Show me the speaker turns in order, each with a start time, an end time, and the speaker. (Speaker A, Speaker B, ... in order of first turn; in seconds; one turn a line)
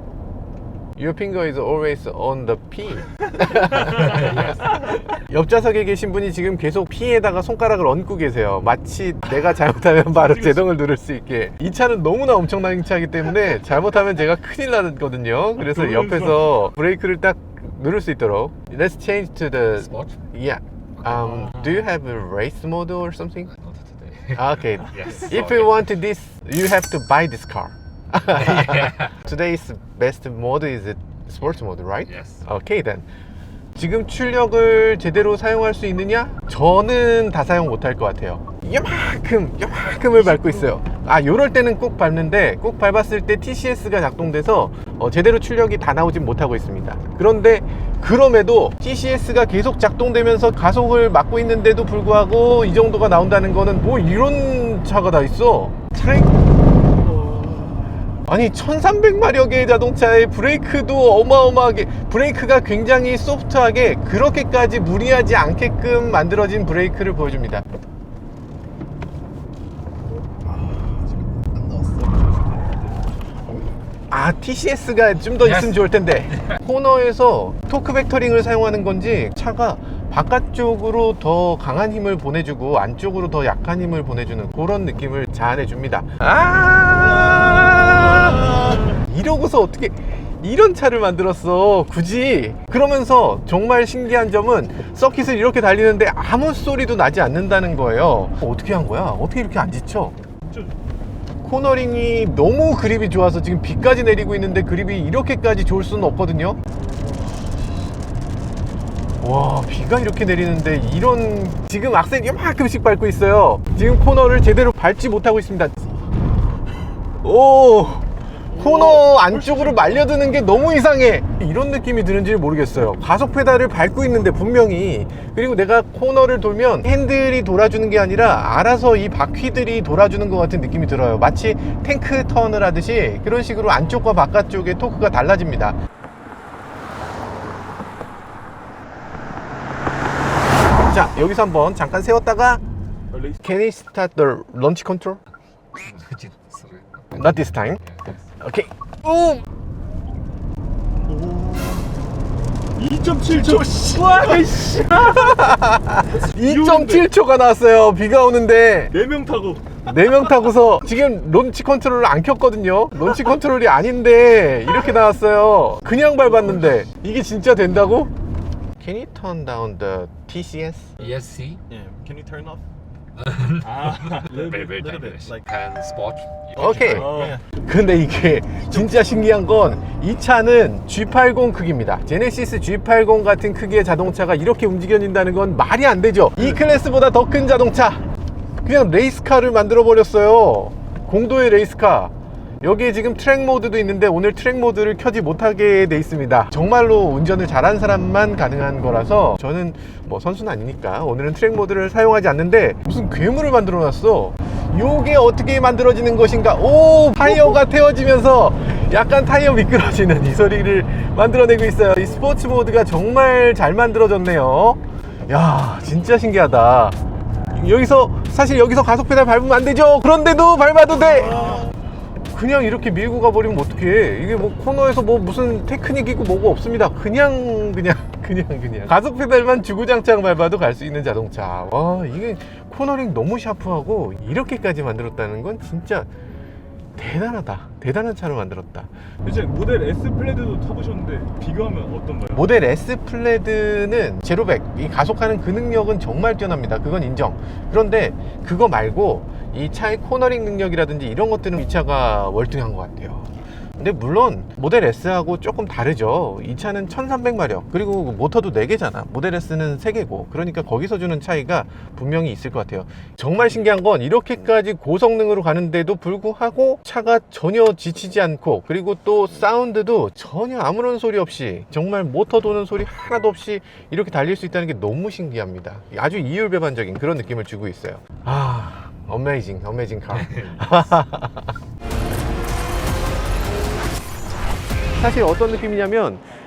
Speaker A: 1.0-23.5
Speaker B: 15.6-16.4
Speaker C: 19.8-20.2
Speaker C: 23.6-24.4
Speaker A: 24.3-33.0
Speaker C: 24.9-25.7
Speaker C: 32.1-32.4
Speaker A: 33.7-56.3
Speaker A: 57.1-57.6
Speaker A: 58.3-67.6
Speaker B: 70.4-73.0
Speaker A: 74.1-100.1
Speaker A: 101.4-106.6
Speaker A: 109.2-116.0
Speaker A: 117.2-135.8
Speaker B: 118.5-119.0
Speaker A: 140.8-142.6
Speaker B: 143.1-143.4
Speaker A: 143.4-145.2
Speaker C: 145.8-147.3
Speaker A: 147.2-147.8
Speaker A: 148.4-149.4
Speaker B: 151.0-152.1
Speaker B: 152.8-155.3
Speaker A: 153.3-159.0
Speaker B: 156.4-157.1
Speaker B: 158.9-159.9
Speaker A: 159.8-168.1
Speaker A: 168.8-170.9
Speaker C: 171.0-171.6
Speaker B: 171.7-172.6
Speaker C: 173.3-173.6
Speaker B: 173.6-175.4
Speaker C: 174.4-177.0
Speaker A: 176.6-188.0
Speaker B: 176.9-177.4
Speaker A: 188.6-217.0
Speaker A: 217.5-221.7
Speaker A: 222.3-236.1
Speaker A: 236.9-238.9
Speaker B: 239.2-242.4
Speaker A: 242.3-281.5
Speaker A: 285.0-286.2